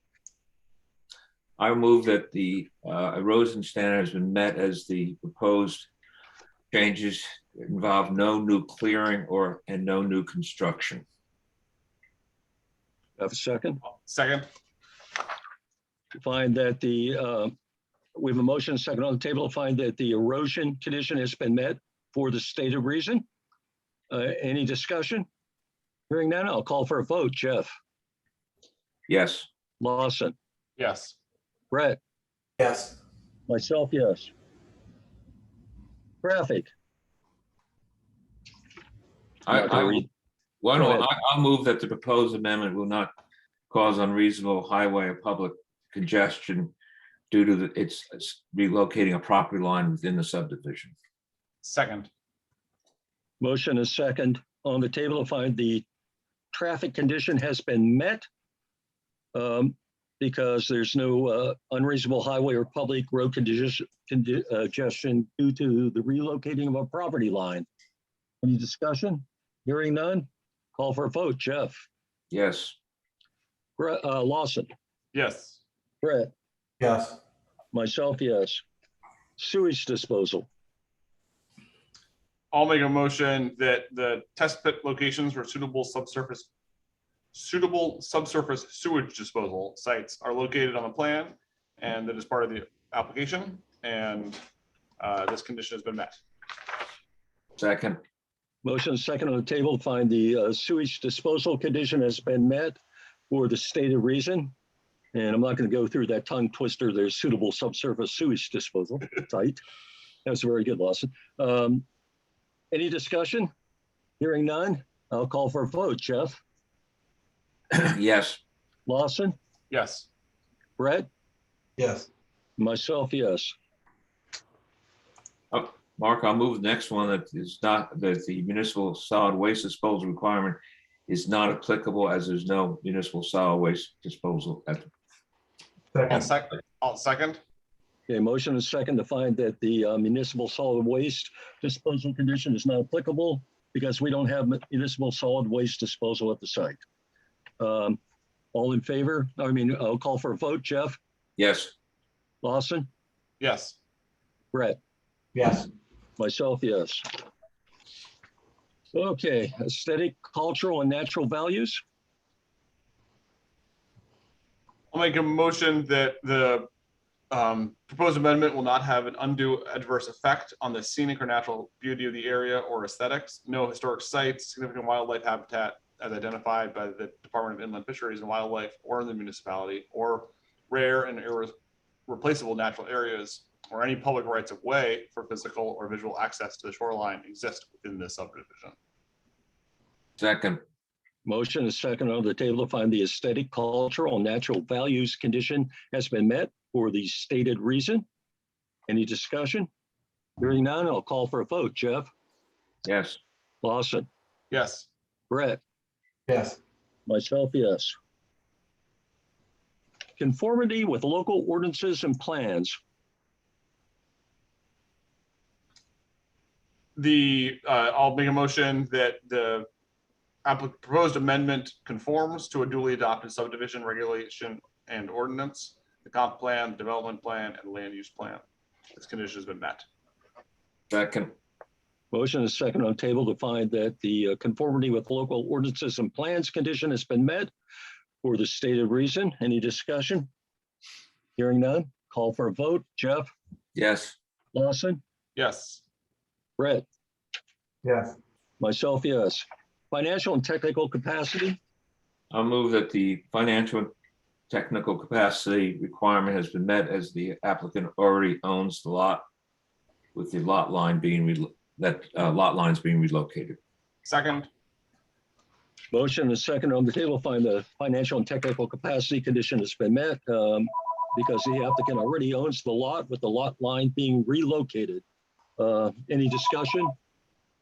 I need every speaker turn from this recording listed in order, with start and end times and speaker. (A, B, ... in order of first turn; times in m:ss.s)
0:01.6-0:05.9 A
0:06.7-0:11.0 A
0:13.2-0:13.8 B
0:13.9-0:14.5 C
0:16.2-0:17.6 B
0:18.2-0:23.2 B
0:24.1-0:25.3 B
0:26.1-0:27.8 B
0:29.1-0:29.5 A
0:29.8-0:30.4 B
0:30.8-0:31.2 C
0:31.7-0:32.0 B
0:32.6-0:33.0 D
0:33.5-0:34.3 B
0:36.2-0:36.7 B
0:39.5-0:40.1 A
0:39.5-0:40.1 B
0:40.6-0:43.1 A
0:43.7-0:46.7 A
0:47.3-0:50.9 A
0:51.6-0:52.1 C
0:53.4-0:55.9 B
0:56.5-0:58.3 B
0:59.3-1:07.7 B
1:08.4-1:11.8 B
1:12.3-1:12.8 A
1:13.8-1:14.7 B
1:15.1-1:15.6 C
1:16.0-1:16.3 B
1:16.8-1:17.2 D
1:17.7-1:18.6 B
1:19.4-1:20.5 B
1:22.5-1:26.5 C
1:27.3-1:34.4 C
1:35.0-1:36.2 C
1:37.6-1:38.0 A
1:38.6-1:42.8 B
1:43.3-1:44.5 B
1:45.1-1:49.6 B
1:50.2-1:51.8 B
1:52.7-1:53.5 B
1:54.2-1:56.4 B
1:57.7-1:58.4 A
1:58.9-1:59.4 B
1:59.7-2:00.1 C
2:00.8-2:01.1 B
2:01.8-2:02.1 D
2:02.6-2:03.6 B
2:05.5-2:14.9 A
2:15.9-2:16.3 D
2:16.1-2:17.4 C
2:18.1-2:26.8 B
2:27.6-2:28.0 B
2:28.5-2:31.0 B
2:31.4-2:31.7 A
2:32.4-2:32.9 B
2:33.4-2:33.8 C
2:34.5-2:34.8 B
2:35.4-2:35.7 D
2:36.2-2:37.1 B
2:38.9-2:41.8 B
2:44.9-2:46.7 C
2:47.3-3:01.5 C
3:02.1-3:08.8 C
3:10.2-3:10.6 A
3:11.3-3:18.0 B
3:18.9-3:19.7 B
3:20.4-3:22.1 B
3:22.8-3:23.2 A
3:23.6-3:24.1 B
3:24.5-3:24.9 C
3:25.3-3:25.6 B
3:26.3-3:26.6 D
3:27.1-3:28.0 B
3:30.2-3:32.8 B
3:37.0-3:39.7 C
3:40.4-3:48.4 C
3:49.0-3:49.9 C
3:50.9-3:51.3 A
3:52.1-3:57.5 B
3:58.2-4:00.3 B
4:01.4-4:03.3 B
4:03.8-4:04.2 A
4:04.5-4:05.0 B
4:05.4-4:05.8 C
4:06.6-4:06.9 B
4:07.8-4:08.2 D
4:08.6-4:11.6 B
4:12.3-4:13.9 A
4:14.5-4:19.2 A
4:20.2-4:23.6 A
4:24.0-4:24.5 C
4:25.9-4:35.0 B
4:35.6-4:36.9 B